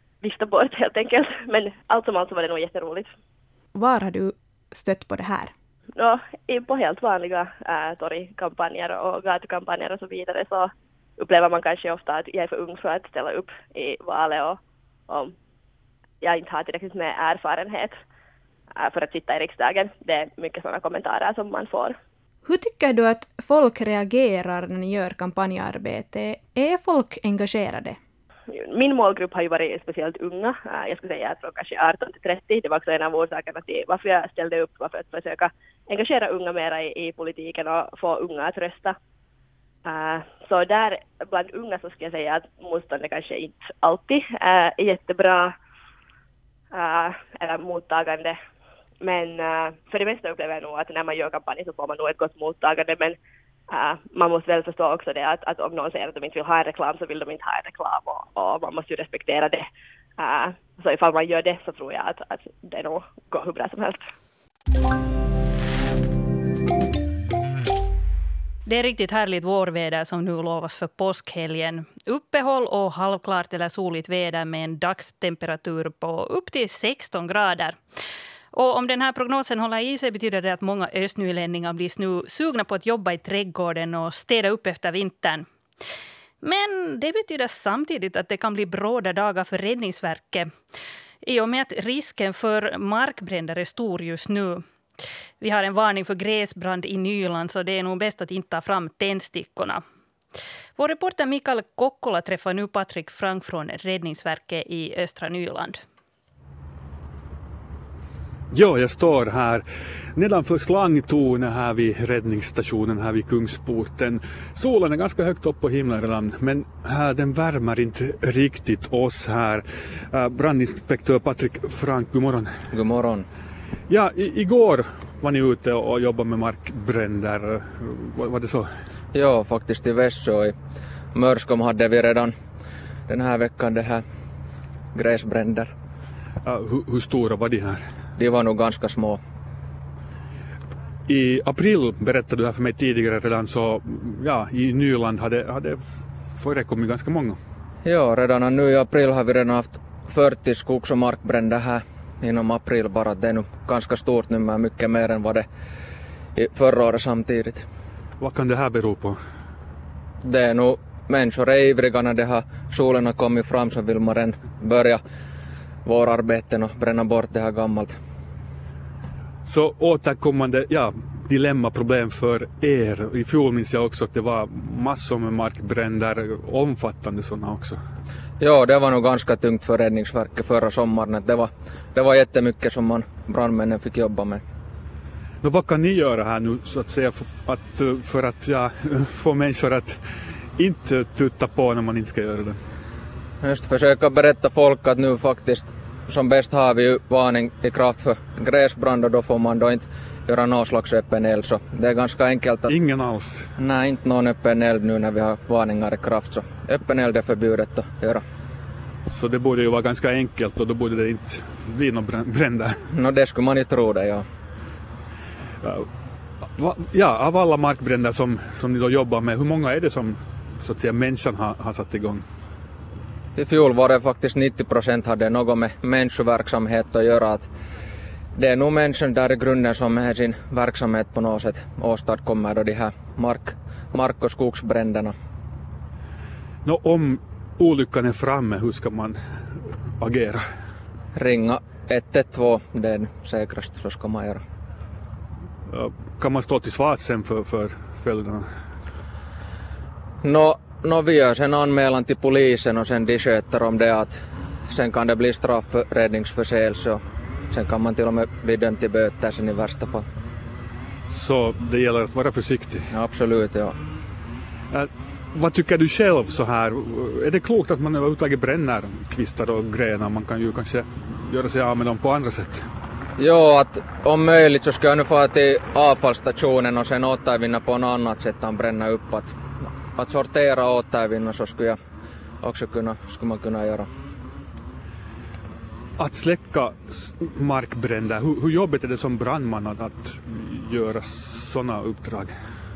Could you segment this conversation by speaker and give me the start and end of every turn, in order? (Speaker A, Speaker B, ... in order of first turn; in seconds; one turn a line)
Speaker A: 0.2-3.1
Speaker B: 3.8-5.5
Speaker A: 6.0-15.3
Speaker A: 16.2-17.9
Speaker A: 18.8-22.0
Speaker B: 22.4-28.0
Speaker A: 28.5-39.0
Speaker A: 39.9-45.5
Speaker A: 46.7-48.4
Speaker A: 49.0-53.2
Speaker A: 53.7-59.7
Speaker A: 60.2-64.0
Speaker C: 68.7-77.8
Speaker C: 78.5-85.5
Speaker C: 86.4-90.5
Speaker C: 91.2-94.6
Speaker C: 95.4-99.8
Speaker C: 100.8-105.8
Speaker D: 108.5-109.6
Speaker D: 110.2-122.6
Speaker E: 122.7-123.3
Speaker D: 123.9-128.7
Speaker E: 129.1-130.6
Speaker E: 131.1-132.3
Speaker E: 133.1-134.0
Speaker E: 134.9-135.7
Speaker D: 136.4-137.9
Speaker E: 138.2-139.2
Speaker D: 141.1-145.8
Speaker D: 146.3-147.4
Speaker E: 147.8-155.5
Speaker E: 156.4-157.6
Speaker D: 158.2-159.2
Speaker E: 160.2-165.0
Speaker E: 165.8-168.0
Speaker D: 169.4-177.8
Speaker E: 178.4-184.4
Speaker D: 185.4-190.0
Speaker D: 190.6-192.6
Speaker E: 193.4-202.7
Speaker D: 202.7-203.5
Speaker E: 203.6-208.2
Speaker D: 209.1-212.8
Speaker E: 212.9-214.2
Speaker D: 215.6-215.9
Speaker D: 216.6-222.2
Speaker E: 223.4-227.5
Speaker E: 228.4-235.2
Speaker D: 236.7-240.5
Speaker E: 241.2-244.4
Speaker D: 245.7-248.5
Speaker E: 250.2-254.2
Speaker E: 254.7-260.1
Speaker D: 261.1-262.9
Speaker E: 262.9-263.8
Speaker D: 264.7-272.7
Speaker E: 273.2-279.3
Speaker E: 279.8-281.8
Speaker E: 282.4-283.9
Speaker D: 286.0-292.4